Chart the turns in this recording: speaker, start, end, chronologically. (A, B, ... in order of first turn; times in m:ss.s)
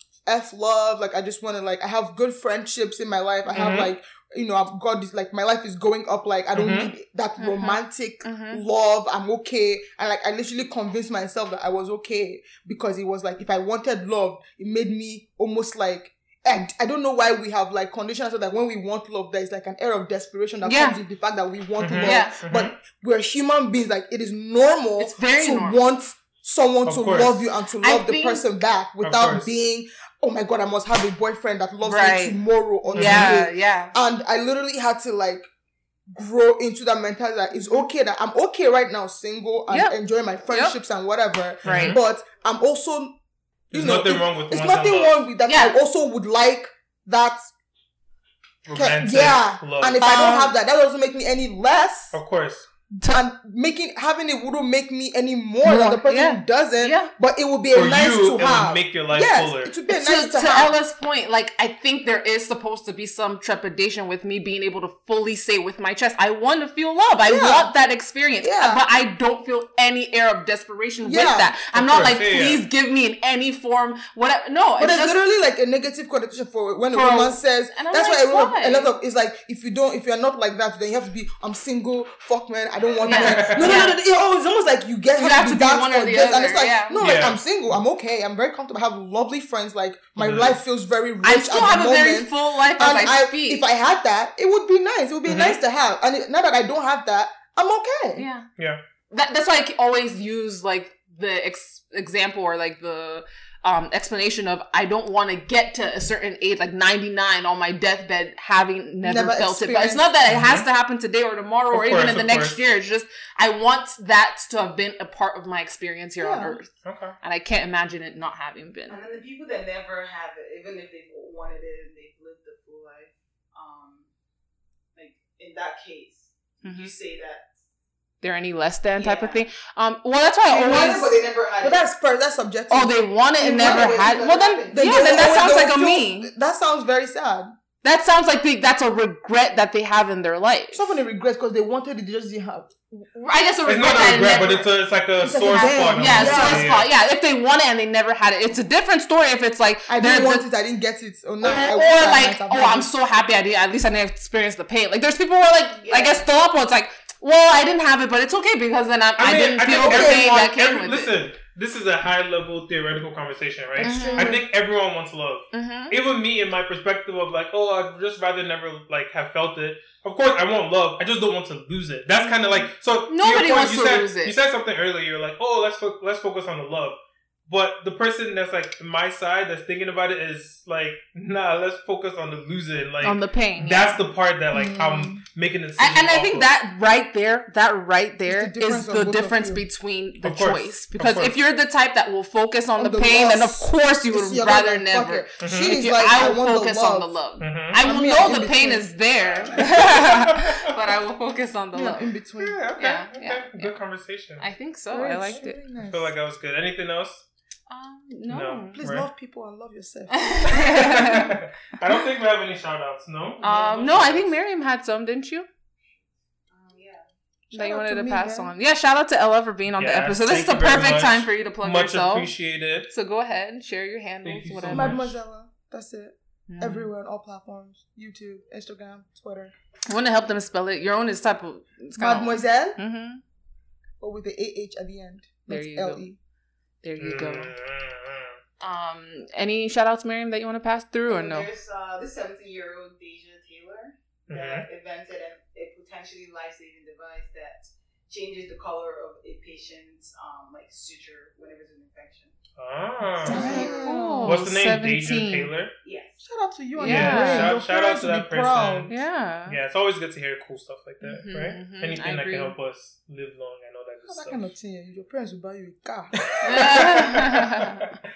0:00.3-0:35.5 A
0:03.5-0:03.9 B
0:06.6-0:06.9 B
0:07.4-0:08.6 C
0:20.6-0:21.0 C
0:21.8-0:22.8 B
0:22.0-0:22.4 C
0:25.0-0:25.8 C
0:26.9-0:27.4 B
0:27.8-0:28.4 C
0:29.0-0:29.5 B
0:31.8-0:33.9 C
0:33.0-0:33.4 B
0:36.1-0:43.2 A
0:37.6-0:37.8 C
0:39.7-0:40.0 C
0:40.5-0:40.8 C
0:41.6-0:42.0 C
0:41.6-0:42.0 B
0:43.7-0:45.1 B
0:43.7-0:47.5 A
0:45.5-0:45.7 C
0:48.7-0:50.3 B
0:48.7-0:52.2 A
0:50.0-0:50.5 C
0:52.1-0:52.7 B
0:53.1-1:00.8 A
0:55.6-0:57.1 C
0:57.7-0:59.7 B
0:59.9-1:15.2 C
1:07.3-1:07.7 A
1:08.4-1:08.8 A
1:11.0-1:11.6 A
1:11.7-1:12.6 B
1:14.8-1:38.2 A
1:16.9-1:18.9 C
1:23.0-1:24.0 C
1:23.1-1:23.9 B
1:25.2-1:27.1 C
1:27.0-1:27.4 B
1:30.2-1:30.6 B
1:31.2-1:33.7 C
1:35.3-1:35.6 B
1:38.2-1:38.5 C
1:39.1-1:59.0 C
1:49.0-1:50.1 A
1:50.3-1:50.6 B
1:51.7-1:52.6 B
1:56.2-1:56.6 A
1:56.8-1:57.2 B
1:58.9-2:04.1 D
2:05.0-2:07.5 D
2:06.6-2:06.9 C
2:08.2-2:11.1 C
2:09.0-2:09.5 D
2:10.5-2:17.5 A
2:10.5-2:11.8 D
2:12.7-2:16.3 C
2:13.6-2:14.2 D
2:17.8-2:20.9 C
2:20.7-2:22.7 A
2:22.9-2:24.7 C
2:23.7-2:26.9 B
2:25.2-2:26.7 A
2:25.5-2:30.4 C
2:29.9-2:32.9 A
2:31.4-2:41.1 C
2:35.8-2:36.2 D
2:39.2-2:57.0 B
2:39.7-2:40.3 A
2:43.8-2:44.4 A
2:43.8-2:44.4 C
2:45.5-2:46.0 C
2:53.1-2:54.4 C
2:57.5-3:06.5 B
3:03.0-3:04.0 C
3:04.5-3:05.2 A
3:05.8-3:22.1 C
3:08.3-3:09.6 A
3:10.2-3:11.4 B
3:12.8-3:17.1 A
3:15.4-3:15.8 B
3:17.4-3:17.8 B
3:17.8-3:18.9 A
3:19.6-3:20.7 B
3:21.7-3:22.6 A
3:22.4-3:24.4 B
3:22.8-3:23.8 C
3:24.4-3:25.6 C
3:24.9-3:26.1 A
3:25.8-3:27.2 B
3:27.7-3:28.8 C
3:28.3-3:29.1 B
3:28.8-3:30.3 A
3:30.1-3:31.4 C
3:30.5-3:34.4 B
3:33.4-3:35.5 C
3:36.5-3:37.0 D
3:37.5-3:38.5 A
3:37.5-3:42.3 C
3:39.8-3:42.9 B
3:42.9-3:45.0 C
3:44.2-3:45.1 B
3:44.7-3:49.5 A
3:46.5-3:46.9 C
3:49.9-3:53.2 C
3:52.0-3:52.8 A
3:54.0-3:56.2 A
3:55.5-3:56.0 C
3:56.8-3:57.5 C
3:57.0-3:58.4 B
3:58.6-4:01.5 C
4:01.1-4:12.4 D
4:04.3-4:04.7 B
4:12.6-4:13.4 B
4:13.2-4:15.5 C
4:13.3-4:14.4 A
4:13.3-4:14.0 D
4:14.2-4:15.7 B
4:15.8-4:16.2 D
4:16.2-4:18.9 A
4:16.8-4:17.6 C
4:16.8-4:24.5 B
4:18.9-4:19.6 C
4:21.0-4:22.5 C
4:24.1-4:27.0 A
4:26.2-4:27.9 B
4:26.4-4:27.9 C